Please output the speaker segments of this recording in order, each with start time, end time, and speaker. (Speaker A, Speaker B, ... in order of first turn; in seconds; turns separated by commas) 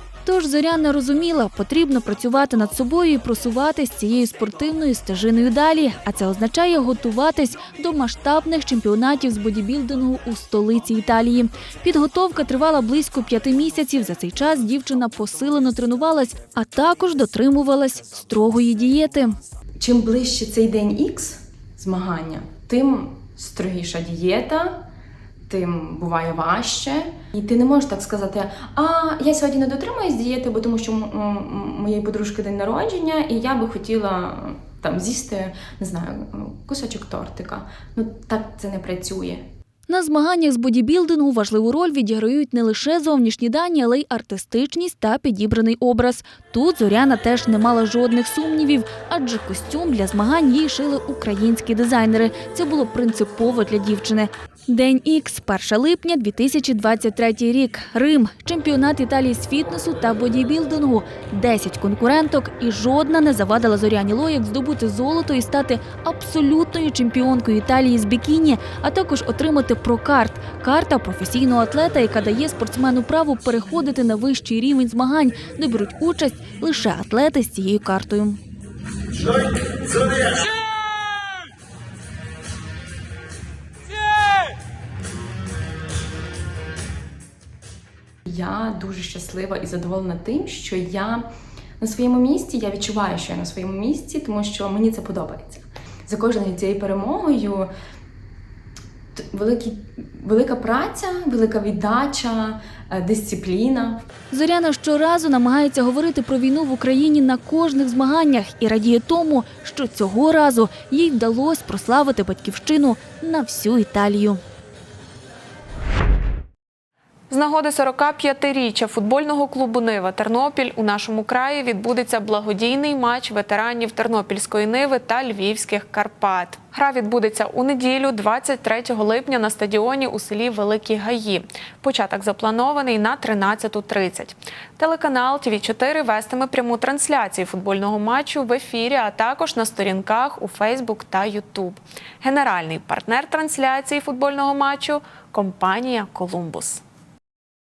Speaker A: 0.2-19.3, Speaker B: 19.8-24.8, Speaker B: 25.5-39.4, Speaker A: 39.9-78.4, Speaker B: 88.3-91.2, Speaker B: 91.8-97.7, Speaker B: 99.2-104.0, Speaker A: 104.3-114.4, Speaker C: 117.3-146.8